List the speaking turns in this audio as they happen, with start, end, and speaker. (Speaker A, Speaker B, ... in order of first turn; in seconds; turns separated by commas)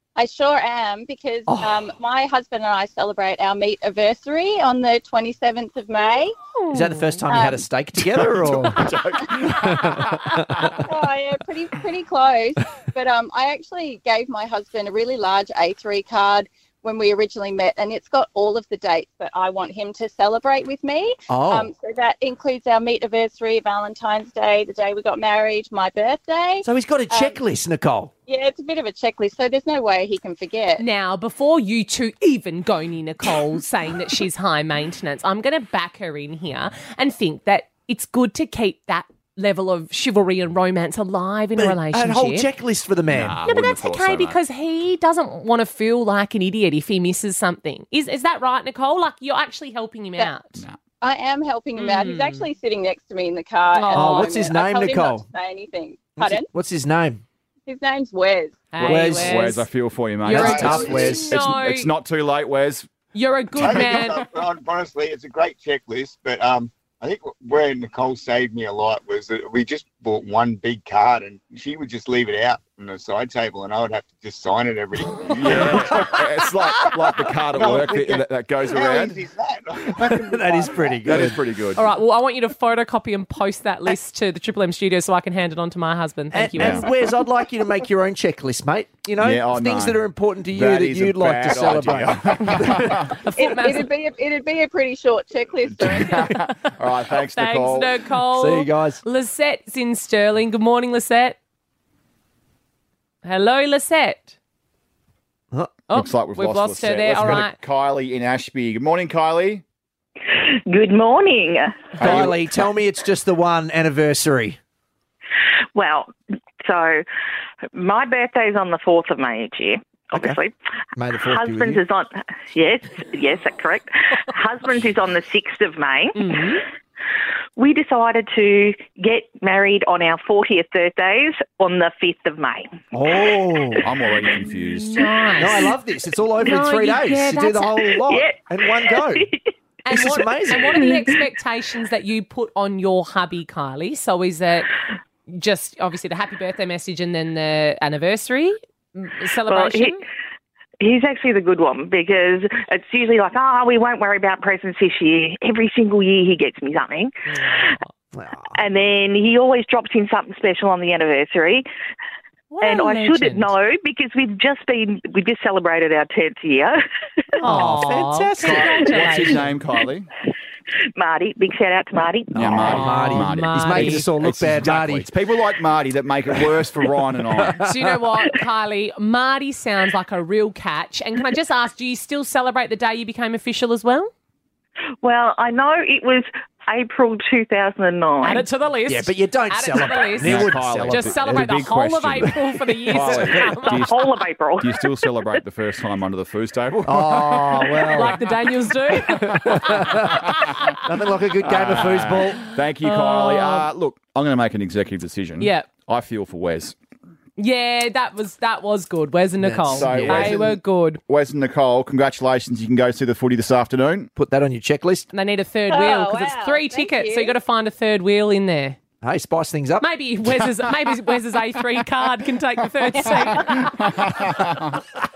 Speaker A: 0.2-6.3, Speaker B: 1.5-1.8, Speaker C: 6.6-7.2, Speaker B: 6.7-10.8, Speaker A: 7.3-7.7, Speaker D: 8.2-10.8, Speaker A: 10.8-27.4, Speaker B: 21.3-21.7, Speaker B: 26.6-28.1, Speaker A: 28.3-30.8, Speaker C: 30.8-42.5, Speaker B: 41.6-43.4, Speaker D: 43.1-44.4, Speaker C: 43.5-50.6, Speaker A: 51.0-56.5, Speaker C: 51.8-52.5, Speaker C: 53.7-54.4, Speaker B: 53.9-55.3, Speaker B: 56.2-57.2, Speaker A: 57.7-58.6, Speaker C: 58.7-59.7, Speaker D: 58.8-62.9, Speaker B: 58.8-59.4, Speaker C: 60.2-61.9, Speaker B: 60.3-61.3, Speaker E: 60.6-61.1, Speaker C: 63.1-64.2, Speaker E: 63.5-76.1, Speaker D: 63.6-64.1, Speaker D: 75.3-79.2, Speaker E: 77.5-81.3, Speaker B: 80.0-81.4, Speaker D: 81.0-81.8, Speaker C: 81.8-87.1, Speaker B: 86.3-93.1, Speaker D: 86.6-86.9, Speaker D: 89.2-93.1, Speaker C: 93.1-93.9, Speaker A: 93.4-96.3, Speaker D: 95.7-98.0, Speaker C: 97.3-101.4, Speaker B: 98.3-99.0, Speaker C: 103.2-104.3, Speaker B: 105.5-105.8, Speaker C: 105.9-107.6, Speaker D: 105.9-109.6, Speaker F: 110.3-112.1, Speaker B: 112.0-114.6, Speaker D: 112.0-112.4, Speaker F: 115.8-116.1, Speaker F: 116.6-117.0, Speaker F: 117.7-120.5, Speaker B: 120.1-120.4, Speaker B: 121.0-121.8, Speaker F: 121.2-126.4, Speaker C: 126.2-126.6, Speaker F: 127.6-132.8, Speaker B: 132.9-133.9, Speaker D: 133.8-135.1, Speaker C: 134.7-135.8, Speaker B: 135.4-139.3, Speaker C: 136.4-137.9, Speaker F: 138.0-139.4, Speaker C: 139.8-144.7, Speaker B: 139.9-140.9, Speaker C: 145.3-150.0, Speaker F: 149.5-150.0, Speaker F: 150.8-157.6, Speaker C: 157.3-157.9, Speaker B: 158.1-158.6, Speaker F: 158.5-161.7, Speaker C: 162.5-163.5, Speaker F: 162.6-166.8, Speaker B: 167.4-168.7, Speaker C: 167.4-169.4, Speaker D: 168.4-170.1, Speaker F: 170.9-172.7, Speaker B: 172.3-175.1, Speaker D: 172.3-177.6, Speaker C: 172.6-174.1, Speaker B: 177.4-177.8, Speaker C: 177.6-184.1, Speaker F: 185.0-188.5, Speaker C: 188.2-193.9, Speaker B: 188.9-191.5, Speaker D: 190.2-197.9, Speaker F: 193.6-195.1, Speaker B: 196.8-198.4, Speaker C: 197.9-200.8, Speaker B: 199.0-202.5, Speaker D: 199.5-200.5, Speaker D: 201.4-206.8, Speaker C: 202.8-203.7, Speaker C: 205.4-205.7, Speaker C: 207.4-211.0, Speaker B: 209.4-210.4, Speaker D: 209.7-214.1, Speaker B: 214.2-215.1, Speaker C: 215.1-218.8, Speaker A: 215.7-217.4, Speaker B: 219.0-219.9, Speaker C: 219.8-223.9, Speaker D: 223.2-224.8